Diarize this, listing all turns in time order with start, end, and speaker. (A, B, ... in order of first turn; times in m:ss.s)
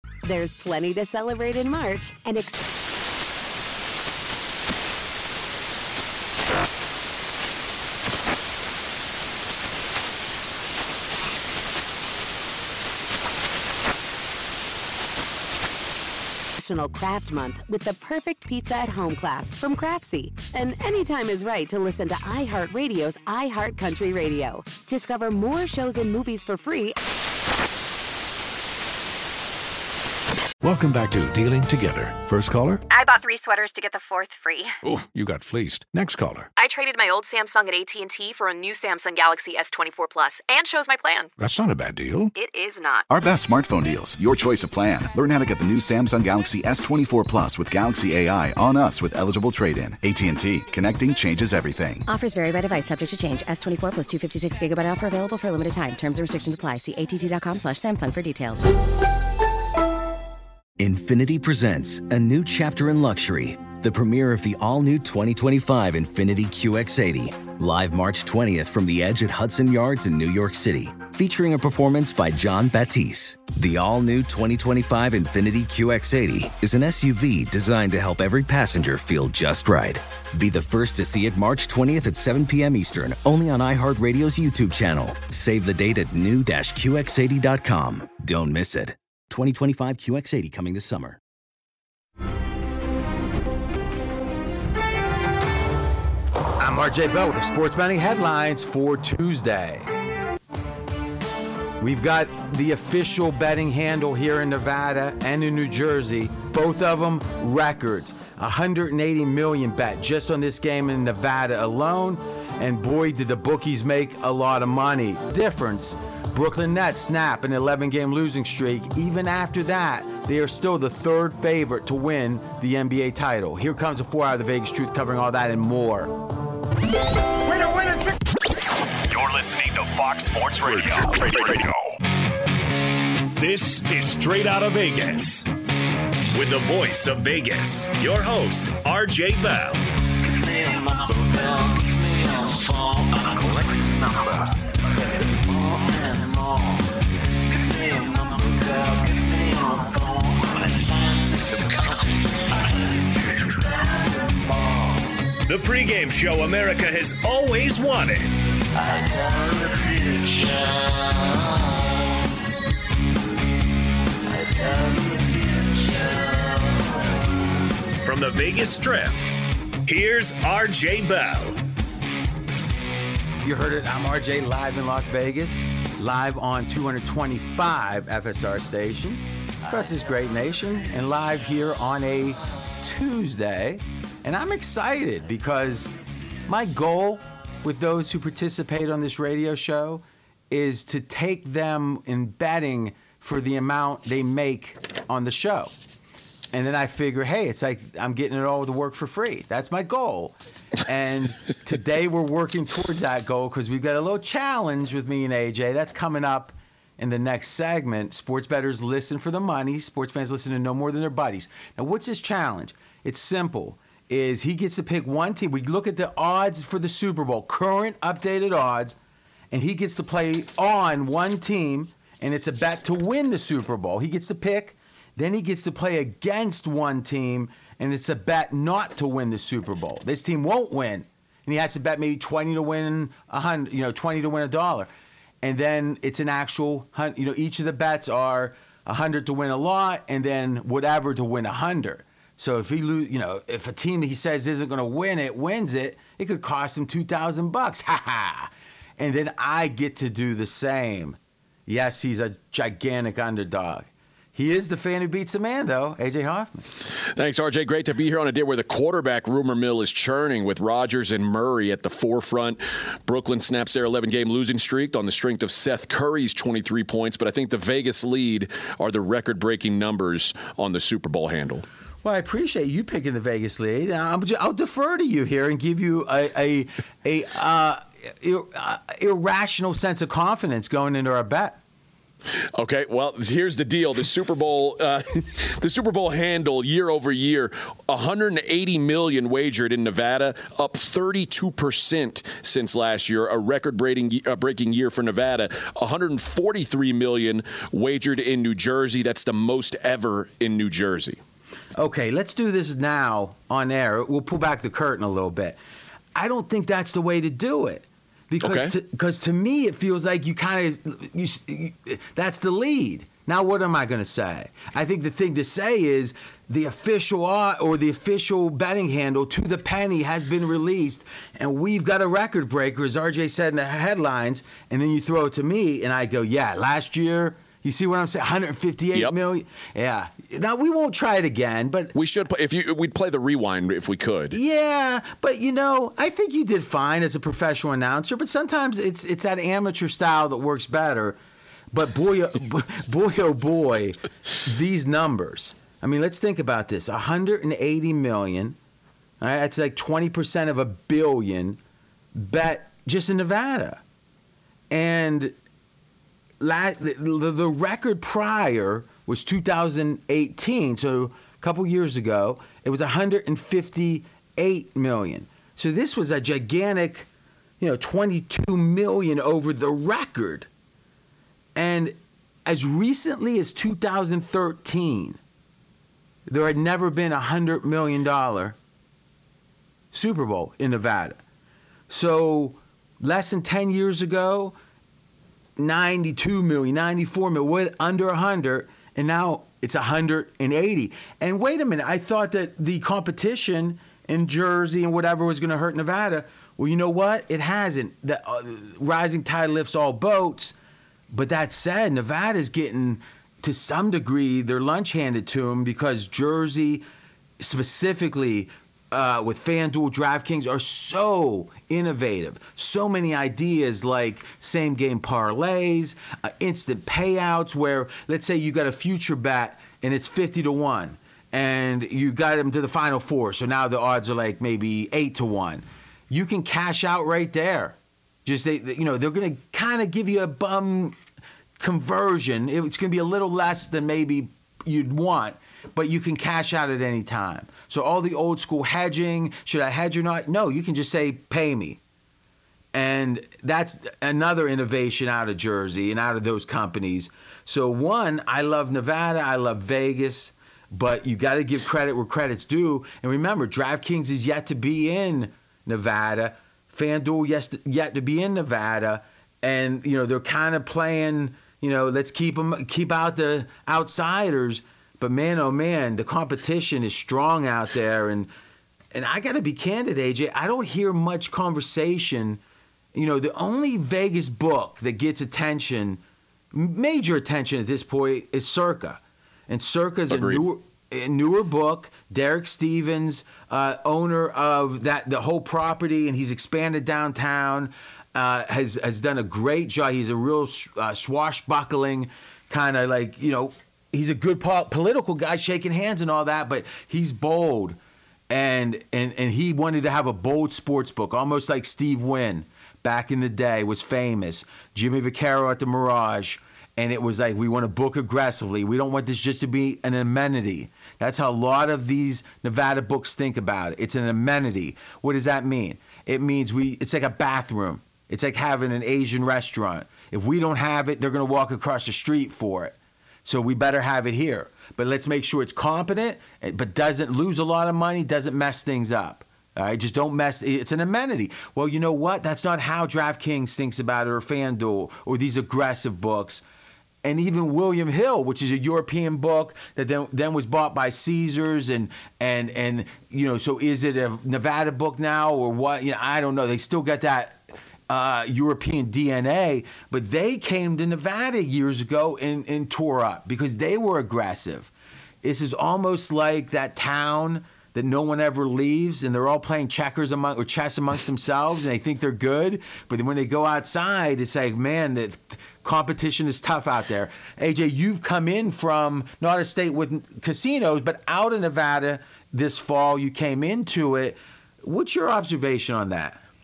0:00.2-0:02.7 A
0:16.6-0:27.0 A
0:30.6-0:32.8 B
0:32.9-0:34.7 C
0:34.8-0:36.5 B
0:36.5-0:41.3 C
0:41.4-0:42.3 B
0:42.3-0:43.1 C
0:43.1-0:52.0 D
0:52.1-0:58.7 E
1:00.8-1:31.2 F
1:36.6-1:39.9 G
1:41.8-2:06.2 G
2:09.1-2:11.8 H
2:13.4-2:15.5 H
2:16.3-2:19.8 H
2:20.4-2:24.5 H
2:25.6-2:26.6 H
2:27.7-2:32.1 H
2:33.2-2:33.5 H
2:35.4-2:40.8 H
2:44.8-2:46.4 H
2:48.0-2:49.2 H
2:49.8-2:51.6 H
2:53.4-3:05.9 G
3:06.5-3:15.7 G
3:16.5-3:39.0 G
3:39.5-3:54.9 G
3:55.4-4:16.6 G
4:17.2-4:31.6 I
4:32.0-4:41.6 G
4:42.6-5:01.2 I
5:01.8-5:05.6 G
5:06.1-5:31.9 G
5:08.4-5:08.7 I
5:31.9-5:34.4 I
5:34.3-5:41.2 G
5:41.7-5:48.6 G
5:49.2-5:51.6 G
5:52.1-5:53.8 G
5:54.7-5:55.3 G
5:56.4-6:07.0 G
6:07.6-6:10.5 G
6:11.6-6:11.9 G
6:12.4-6:15.2 G
6:16.3-6:18.6 G
6:19.9-6:21.2 G
6:21.9-6:24.5 G
6:25.6-6:40.5 G
6:41.1-6:46.8 G
6:47.4-7:11.0 G
7:11.6-7:21.8 G
7:22.7-7:48.3 G
7:48.9-7:52.4 G
7:52.9-7:56.0 G
7:56.5-8:17.8 G
8:00.1-8:00.4 I
8:18.3-8:56.4 G
8:57.0-9:07.4 G
9:07.9-9:14.7 G
9:15.2-9:36.2 G